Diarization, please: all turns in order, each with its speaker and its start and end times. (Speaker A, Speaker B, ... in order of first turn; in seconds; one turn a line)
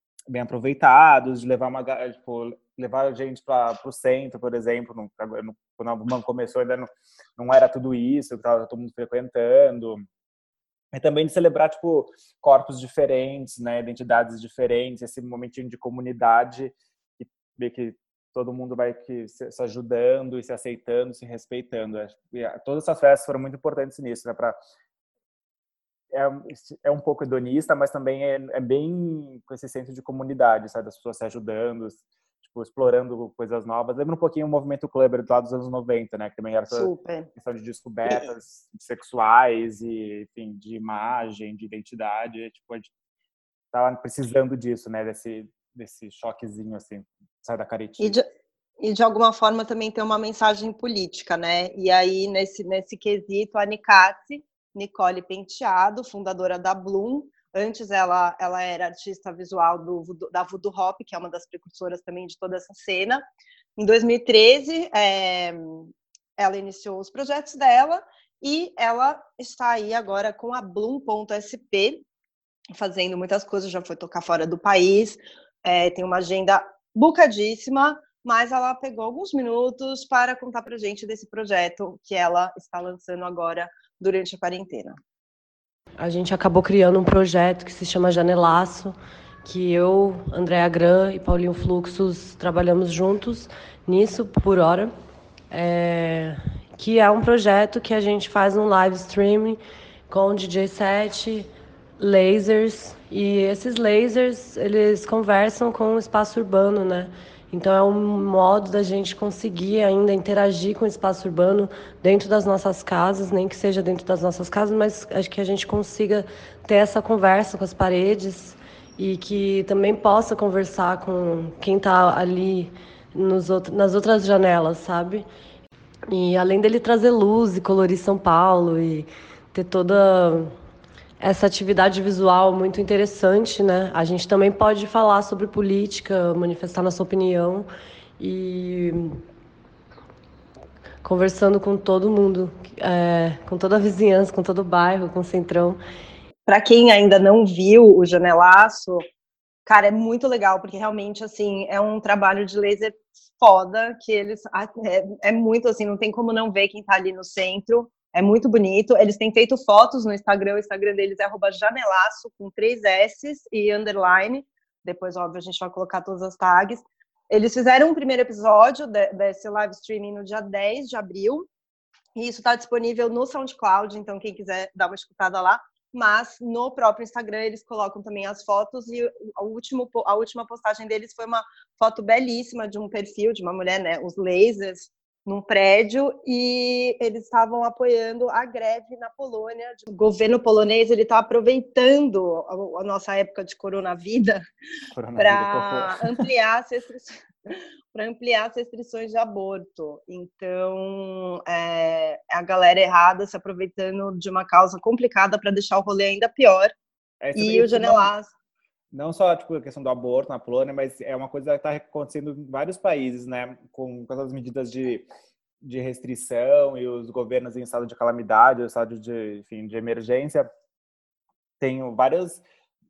Speaker A: 0.3-10.1
Speaker A: 10.9-24.6
Speaker A: 26.1-42.9
Speaker B: 36.7-37.3
Speaker A: 43.7-48.2
Speaker B: 48.0-48.2
Speaker B: 48.8-63.2
Speaker B: 63.8-72.0
Speaker B: 72.8-85.0
Speaker C: 86.0-94.9
Speaker C: 95.5-125.2
Speaker C: 126.1-130.5
Speaker C: 131.2-137.7
Speaker C: 138.2-139.2
Speaker C: 141.0-145.8
Speaker B: 146.5-149.0
Speaker B: 149.7-171.5
Speaker B: 172.2-194.4
Speaker A: 194.9-196.1
Speaker B: 195.2-206.7
Speaker A: 207.2-208.1
Speaker B: 207.3-208.3
Speaker A: 208.9-215.1
Speaker A: 215.6-220.5
Speaker A: 221.6-222.4